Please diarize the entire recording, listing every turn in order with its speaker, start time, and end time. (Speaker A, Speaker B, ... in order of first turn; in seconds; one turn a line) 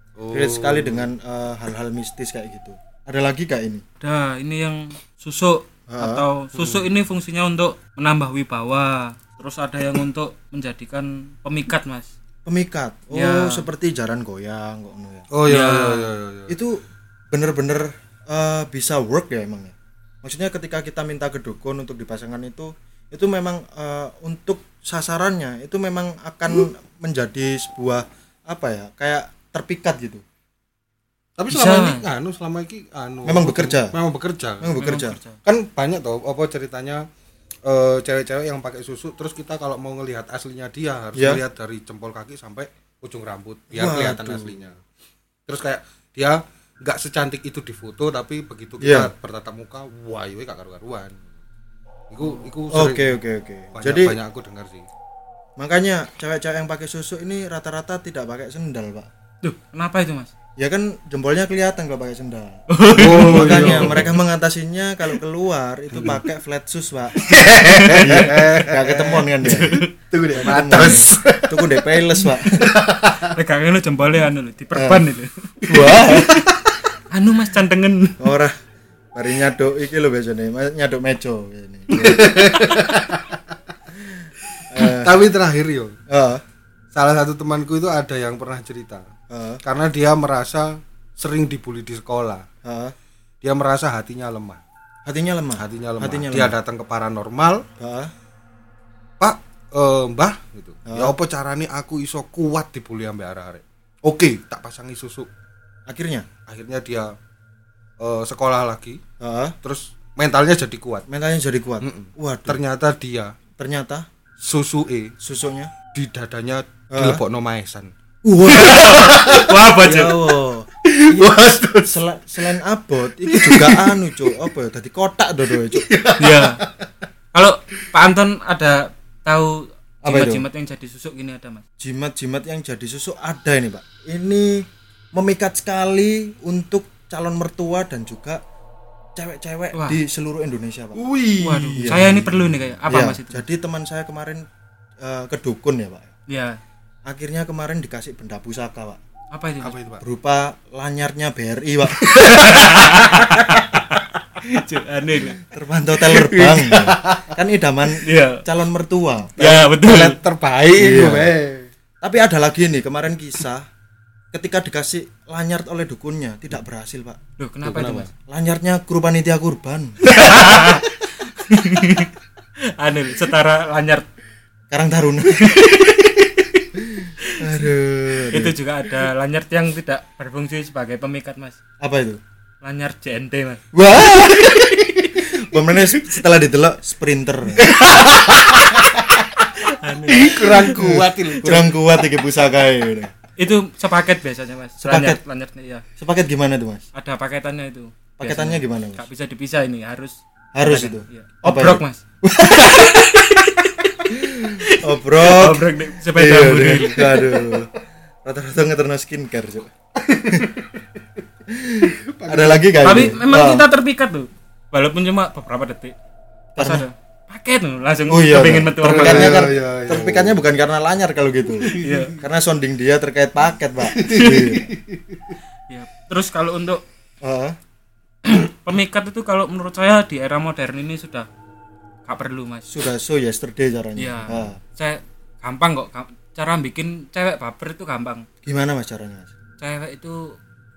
Speaker A: 0.2-1.1
Speaker B: 0.3-3.8
Speaker C: 4.0-12.1
Speaker B: 5.9-6.2
Speaker A: 6.5-6.8
Speaker B: 12.4-15.3
Speaker C: 13.1-13.7
Speaker A: 15.3-16.6
Speaker C: 15.5-16.1
Speaker B: 16.5-30.2
Speaker A: 31.4-34.7
Speaker C: 31.5-32.0
Speaker B: 33.2-34.0
Speaker B: 34.6-35.2
Speaker C: 34.8-35.4
Speaker A: 35.4-37.1
Speaker A: 37.6-44.8
Speaker B: 41.2-41.4
Speaker B: 43.7-44.6
Speaker A: 45.5-51.2
Speaker B: 48.8-49.1
Speaker A: 52.1-53.2
Speaker B: 52.7-54.2
Speaker A: 53.7-54.9
Speaker B: 55.6-59.1
Speaker C: 59.4-60.3
Speaker B: 60.6-67.3
Speaker C: 62.7-64.0
Speaker A: 63.0-64.2
Speaker A: 65.9-66.2
Speaker A: 67.2-73.3
Speaker C: 67.4-68.3
Speaker B: 67.9-69.8
Speaker C: 69.4-69.9
Speaker B: 70.3-72.7
Speaker C: 70.6-71.0
Speaker C: 73.2-75.5
Speaker B: 74.7-75.0
Speaker B: 75.7-76.5
Speaker A: 75.7-76.6
Speaker C: 77.1-78.2
Speaker B: 78.2-78.5
Speaker B: 79.1-82.7
Speaker A: 81.9-83.4
Speaker B: 83.9-85.2
Speaker A: 84.8-86.0
Speaker B: 86.1-86.4
Speaker A: 86.9-89.1
Speaker B: 89.3-89.6
Speaker A: 89.6-92.5
Speaker B: 92.6-93.0
Speaker A: 93.4-94.6
Speaker B: 95.0-96.6
Speaker A: 95.6-97.7
Speaker B: 97.8-98.1
Speaker A: 99.2-105.3
Speaker B: 100.9-101.2
Speaker B: 105.9-106.3
Speaker A: 106.5-107.1
Speaker A: 108.0-109.0
Speaker B: 109.2-109.6
Speaker A: 109.6-111.1
Speaker B: 111.1-112.6
Speaker A: 111.8-113.3
Speaker B: 113.6-114.1
Speaker A: 114.4-115.1
Speaker B: 115.2-115.7
Speaker A: 115.9-117.9
Speaker B: 116.9-117.2
Speaker B: 118.2-119.0
Speaker C: 118.5-120.2
Speaker A: 118.8-120.2
Speaker B: 119.8-121.3
Speaker A: 120.8-122.0
Speaker B: 121.8-125.9
Speaker A: 123.3-124.4
Speaker A: 125.7-126.9
Speaker C: 126.2-126.6
Speaker C: 127.3-131.6
Speaker B: 130.0-130.4
Speaker B: 131.8-138.4
Speaker B: 139.2-141.0
Speaker C: 139.7-140.0
Speaker A: 140.9-141.9
Speaker C: 141.4-143.4
Speaker B: 141.7-144.4
Speaker B: 145.0-146.1
Speaker C: 146.3-146.6
Speaker B: 147.1-149.0
Speaker C: 149.3-149.8
Speaker A: 149.6-150.0
Speaker B: 150.0-152.1
Speaker A: 152.0-152.8
Speaker C: 152.1-155.4
Speaker B: 155.4-159.7
Speaker A: 156.1-157.3
Speaker C: 158.0-158.4
Speaker C: 159.4-160.2
Speaker A: 159.7-161.7
Speaker B: 160.8-161.3
Speaker B: 162.0-163.7
Speaker B: 164.3-167.2
Speaker C: 167.4-168.1
Speaker A: 167.6-168.1
Speaker B: 168.3-170.0
Speaker C: 170.1-172.1
Speaker C: 172.7-174.1
Speaker B: 174.7-175.6
Speaker C: 175.4-176.7
Speaker B: 176.8-178.6
Speaker C: 177.2-177.5
Speaker C: 178.3-181.6
Speaker B: 181.8-182.2
Speaker C: 182.6-185.1
Speaker B: 183.7-187.8
Speaker A: 187.6-189.5
Speaker C: 189.6-190.9
Speaker A: 190.1-191.8
Speaker B: 190.7-193.1
Speaker C: 193.4-195.8
Speaker B: 194.8-195.2
Speaker B: 196.0-196.8
Speaker C: 196.9-202.0
Speaker B: 198.2-199.0
Speaker B: 200.6-202.9
Speaker C: 202.6-204.1
Speaker B: 204.1-207.7
Speaker C: 204.7-207.1
Speaker A: 207.0-207.7
Speaker B: 208.2-209.7
Speaker A: 210.0-210.8
Speaker B: 211.5-213.7
Speaker A: 211.9-213.2
Speaker C: 212.8-215.9
Speaker B: 216.6-216.8
Speaker C: 216.6-219.4
Speaker B: 218.1-224.7
Speaker A: 218.8-220.4
Speaker A: 221.6-222.1
Speaker C: 221.8-222.2
Speaker A: 223.9-225.3
Speaker C: 224.1-224.4
Speaker C: 225.7-226.8
Speaker B: 227.2-227.6
Speaker C: 228.2-231.3
Speaker C: 232.1-232.7
Speaker B: 232.7-234.6
Speaker C: 234.0-238.3
Speaker B: 238.4-239.3
Speaker C: 239.6-240.4